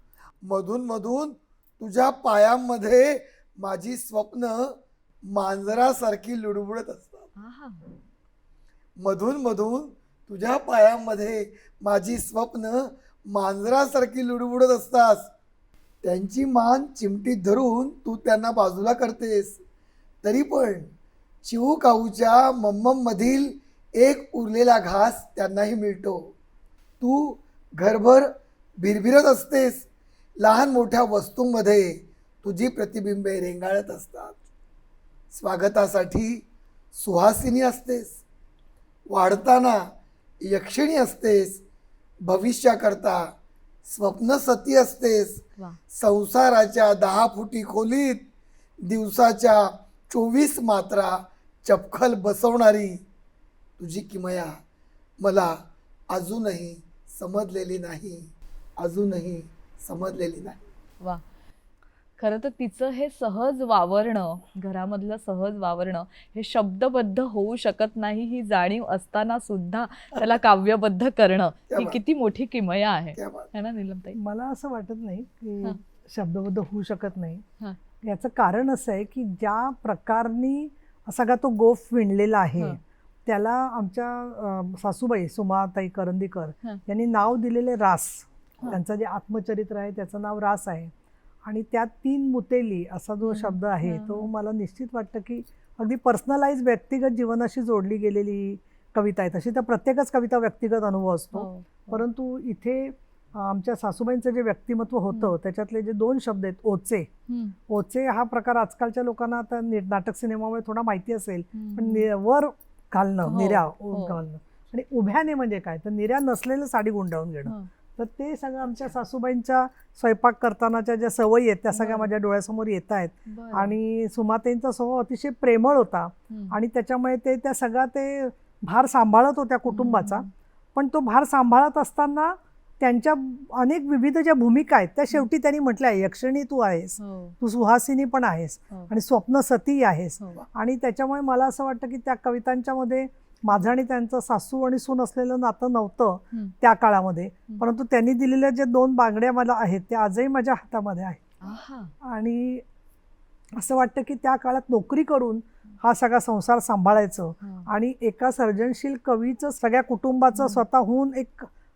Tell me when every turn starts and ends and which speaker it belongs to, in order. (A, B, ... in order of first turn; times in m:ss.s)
0:00.4-0:07.3 A
0:07.4-0:07.9 B
0:09.0-0:15.3 A
0:16.0-0:19.6 A
0:20.2-0:20.9 A
0:21.4-0:26.3 A
0:27.0-0:29.8 A
0:30.4-0:34.4 A
0:35.3-0:36.4 A
0:36.9-0:38.2 A
0:39.1-0:39.9 A
0:40.4-0:41.6 A
0:42.2-0:43.3 A
0:43.8-0:48.2 A
0:48.8-0:53.0 A
0:53.8-0:54.6 A
0:55.2-0:55.6 A
0:56.1-1:00.6 A
1:02.2-1:14.2 B
1:11.7-1:12.0 A
1:13.2-1:13.5 A
1:14.1-1:17.4 C
1:18.0-1:30.9 C
1:31.4-1:47.1 C
1:33.2-1:34.3 B
1:41.3-1:42.0 B
1:47.3-1:47.6 B
1:47.7-2:31.2 C
1:51.5-1:52.1 B
1:53.2-1:54.2 B
2:01.7-2:02.1 B
2:03.3-2:03.8 B
2:06.3-2:06.6 B
2:09.7-2:10.3 B
2:17.0-2:17.4 B
2:31.4-2:31.9 B
2:32.0-2:32.6 C
2:33.6-2:41.5 C
2:37.4-2:37.7 B
2:40.3-2:40.6 B